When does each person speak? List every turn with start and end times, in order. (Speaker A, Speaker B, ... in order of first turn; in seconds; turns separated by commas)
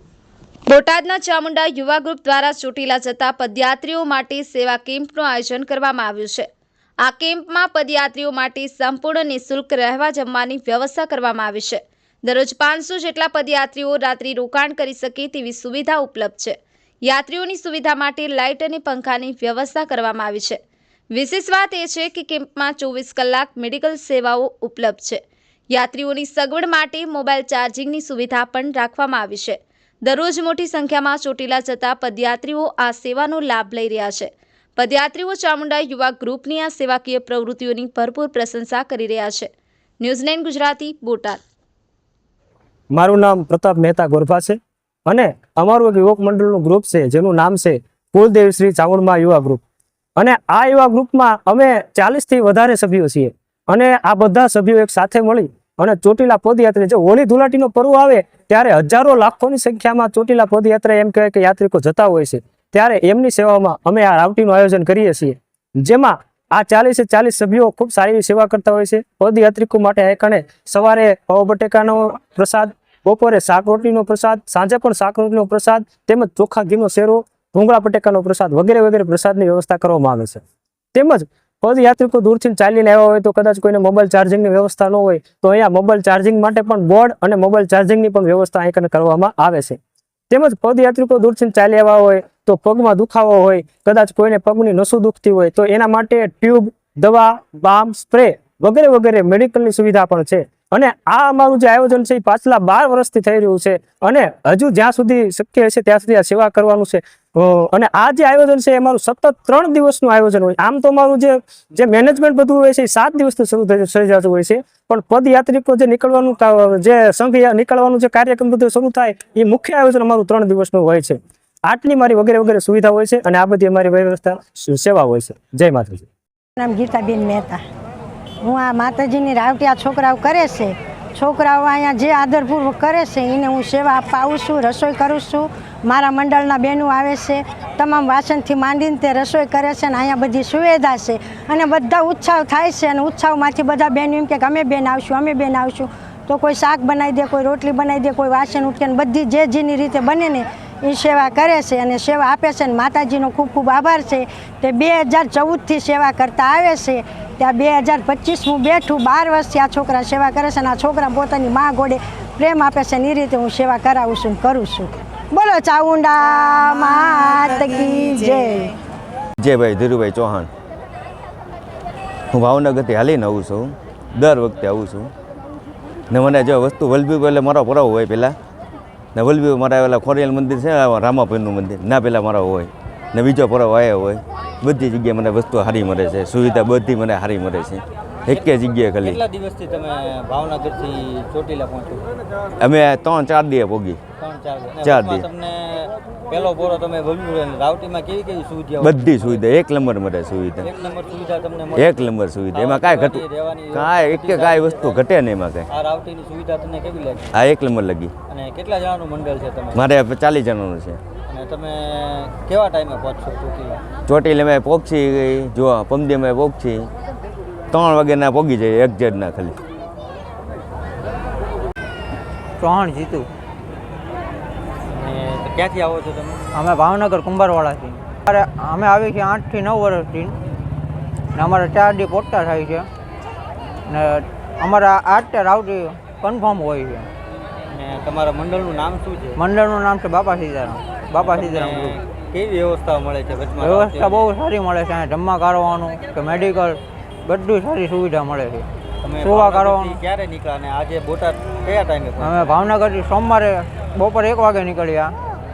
Speaker A: 0.7-6.5, Speaker A: 7.0-20.6, Speaker A: 21.1-39.5, Speaker A: 40.0-41.4, Speaker B: 42.9-49.6, Speaker B: 50.2-80.4, Speaker B: 80.9-89.8, Speaker B: 90.3-126.1, Speaker C: 126.6-127.6, Speaker C: 128.4-168.7, Speaker D: 169.4-170.5, Speaker D: 172.3-175.1, Speaker D: 176.1-178.4, Speaker D: 179.2-189.2, Speaker E: 188.3-192.1, Speaker D: 192.6-194.0, Speaker E: 194.2-199.4, Speaker D: 194.8-195.3, Speaker D: 198.8-200.7, Speaker E: 200.6-205.1, Speaker D: 201.7-205.7, Speaker E: 205.7-207.4, Speaker D: 207.3-208.1, Speaker E: 208.3-209.9, Speaker D: 209.7-211.0, Speaker E: 211.3-213.8, Speaker D: 214.1-216.9, Speaker D: 217.7-219.6, Speaker F: 222.6-223.3, Speaker E: 224.9-226.4, Speaker F: 226.5-230.3, Speaker F: 231.3-232.9, Speaker F: 233.9-237.1, Speaker E: 237.7-239.4, Speaker F: 239.4-242.0, Speaker E: 241.2-244.3, Speaker F: 243.6-248.7, Speaker E: 249.0-252.6, Speaker F: 249.2-250.0, Speaker F: 252.2-255.1